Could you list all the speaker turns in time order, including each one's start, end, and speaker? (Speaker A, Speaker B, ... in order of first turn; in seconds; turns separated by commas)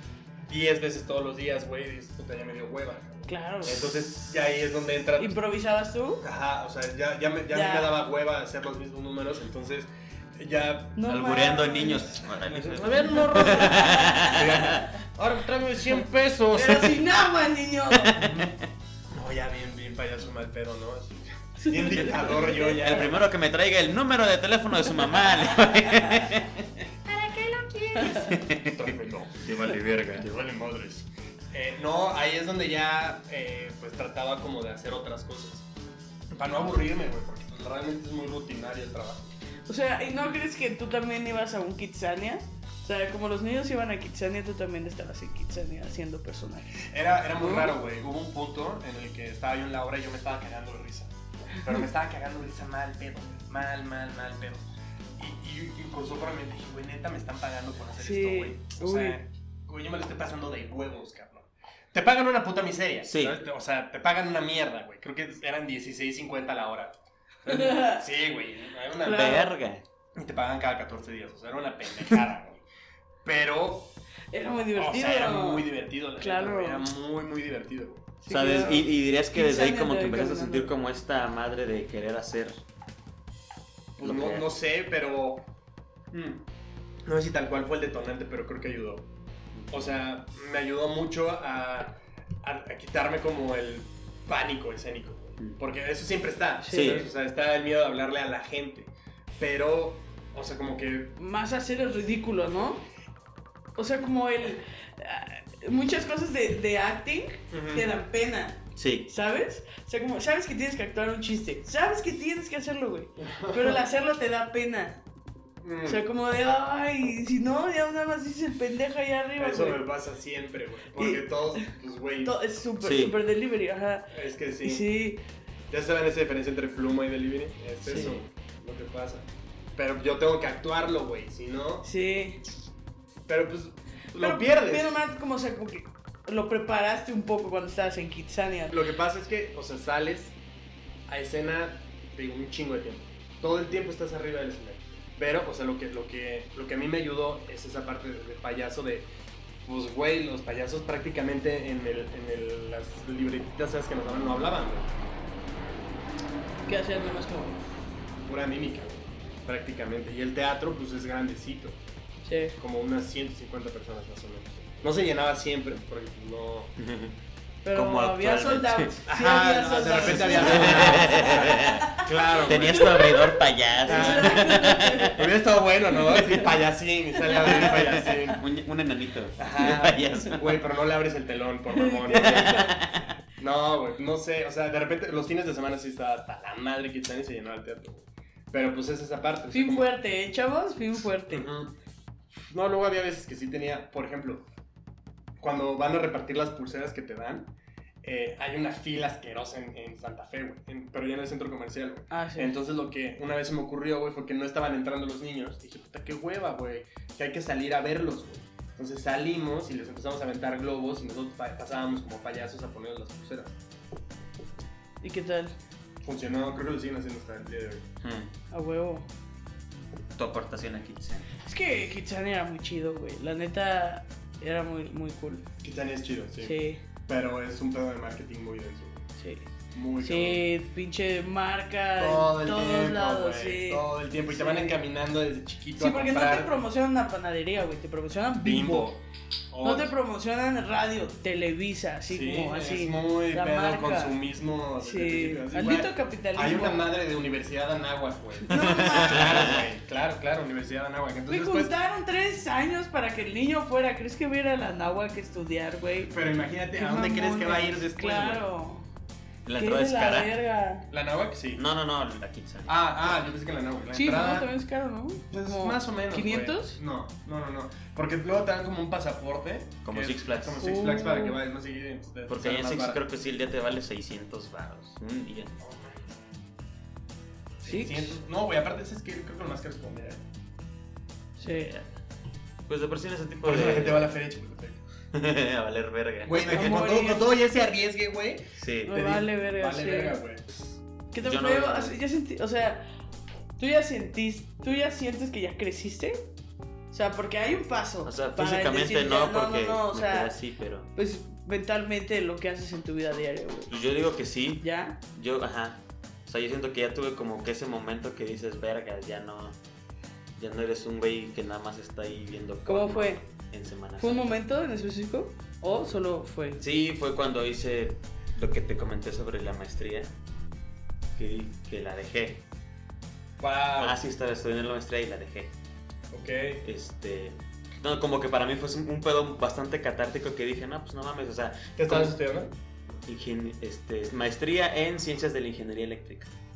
Speaker A: 0.4-5.4, Speaker B: 3.3-3.9, Speaker B: 5.2-6.2, Speaker A: 6.2-11.0, Speaker B: 7.5-8.0, Speaker B: 11.0-12.2, Speaker C: 11.1-14.9, Speaker A: 12.5-17.0, Speaker B: 13.1-14.9, Speaker B: 16.6-18.3, Speaker C: 18.2-18.6, Speaker A: 19.1-23.2, Speaker B: 21.6-23.0, Speaker C: 22.3-26.7, Speaker B: 27.9-28.4, Speaker C: 28.0-28.8, Speaker A: 28.6-35.7, Speaker C: 29.4-30.3, Speaker A: 36.3-39.3, Speaker B: 39.7-47.8, Speaker A: 46.8-54.6, Speaker A: 55.2-69.4, Speaker B: 58.0-59.2, Speaker C: 63.0-63.4, Speaker B: 67.5-68.0, Speaker B: 69.0-69.5, Speaker C: 69.0-69.8, Speaker A: 70.2-72.6, Speaker A: 73.2-73.9, Speaker B: 74.3-76.9, Speaker A: 74.7-78.2, Speaker B: 78.2-80.7, Speaker C: 78.3-82.5, Speaker A: 84.0-85.4, Speaker C: 84.0-84.5, Speaker A: 86.1-86.4, Speaker A: 87.0-89.1, Speaker C: 89.5-89.9, Speaker A: 89.7-101.2, Speaker B: 96.6-97.0, Speaker C: 96.7-97.1, Speaker B: 101.2-102.9, Speaker B: 103.8-115.0, Speaker A: 107.5-107.9, Speaker C: 108.8-109.1, Speaker A: 113.2-113.8, Speaker A: 115.6-116.0, Speaker B: 115.9-119.8, Speaker A: 119.4-122.3, Speaker B: 121.0-121.7, Speaker B: 122.2-124.1, Speaker C: 122.8-123.2, Speaker A: 124.1-124.8, Speaker B: 124.6-125.2, Speaker A: 125.7-131.9, Speaker B: 127.8-128.2, Speaker B: 131.8-132.4, Speaker A: 133.3-134.9, Speaker B: 134.1-138.8, Speaker A: 138.7-140.3, Speaker A: 141.1-149.1, Speaker A: 149.7-154.9, Speaker B: 156.7-157.6, Speaker A: 158.2-161.8, Speaker B: 162.2-162.6, Speaker A: 162.6-166.7, Speaker C: 166.8-167.2, Speaker B: 167.6-175.2, Speaker C: 167.7-168.9, Speaker A: 169.1-173.0, Speaker C: 169.9-171.8, Speaker C: 172.4-175.3, Speaker A: 173.8-178.4, Speaker B: 176.0-176.5, Speaker B: 177.2-178.0, Speaker C: 177.3-180.7, Speaker A: 179.4-189.8, Speaker B: 181.7-182.6, Speaker C: 182.1-183.1, Speaker B: 189.5-191.5, Speaker A: 191.3-191.7, Speaker A: 192.5-194.4, Speaker A: 195.4-197.5, Speaker A: 198.0-213.6, Speaker B: 202.1-202.6, Speaker B: 215.0-215.6, Speaker A: 216.0-217.9, Speaker C: 218.0-218.3, Speaker B: 218.5-219.1, Speaker C: 220.2-221.3, Speaker B: 221.4-225.4, Speaker A: 225.6-226.5, Speaker B: 226.4-226.8, Speaker A: 227.1-229.1, Speaker B: 229.2-229.5, Speaker A: 229.7-230.4, Speaker B: 230.0-234.8, Speaker A: 232.0-236.5, Speaker B: 235.8-238.9, Speaker A: 238.4-239.9, Speaker B: 239.6-244.2, Speaker A: 242.1-251.7, Speaker B: 244.8-246.8, Speaker B: 248.5-249.6, Speaker C: 248.5-249.6, Speaker B: 251.3-256.1, Speaker A: 256.1-258.5, Speaker B: 256.8-258.9, Speaker C: 259.4-260.3, Speaker B: 259.6-260.9, Speaker A: 260.9-261.6, Speaker C: 261.6-262.8, Speaker A: 262.7-264.5, Speaker B: 263.9-266.8, Speaker A: 265.3-273.0, Speaker C: 269.9-270.7, Speaker B: 270.6-271.4, Speaker C: 272.3-275.6, Speaker A: 275.6-276.1, Speaker A: 277.6-280.2, Speaker B: 277.6-278.2, Speaker B: 281.4-281.7, Speaker C: 281.5-281.9, Speaker C: 282.7-284.1, Speaker A: 283.4-284.8, Speaker C: 285.1-287.0, Speaker A: 286.2-290.4, Speaker B: 286.4-287.2, Speaker C: 288.6-289.0, Speaker B: 288.9-290.2, Speaker B: 291.1-292.9, Speaker C: 291.2-292.0, Speaker B: 293.6-296.3, Speaker B: 296.9-300.3, Speaker C: 298.1-300.9, Speaker B: 300.9-303.7, Speaker C: 303.7-309.6, Speaker B: 304.6-305.0, Speaker C: 310.4-314.3, Speaker B: 312.7-313.2, Speaker B: 314.0-316.6, Speaker C: 316.6-320.1, Speaker C: 321.1-322.4, Speaker A: 323.4-324.0, Speaker C: 323.8-325.5, Speaker A: 326.1-326.6, Speaker C: 326.6-332.1, Speaker A: 331.8-332.6, Speaker C: 333.1-336.3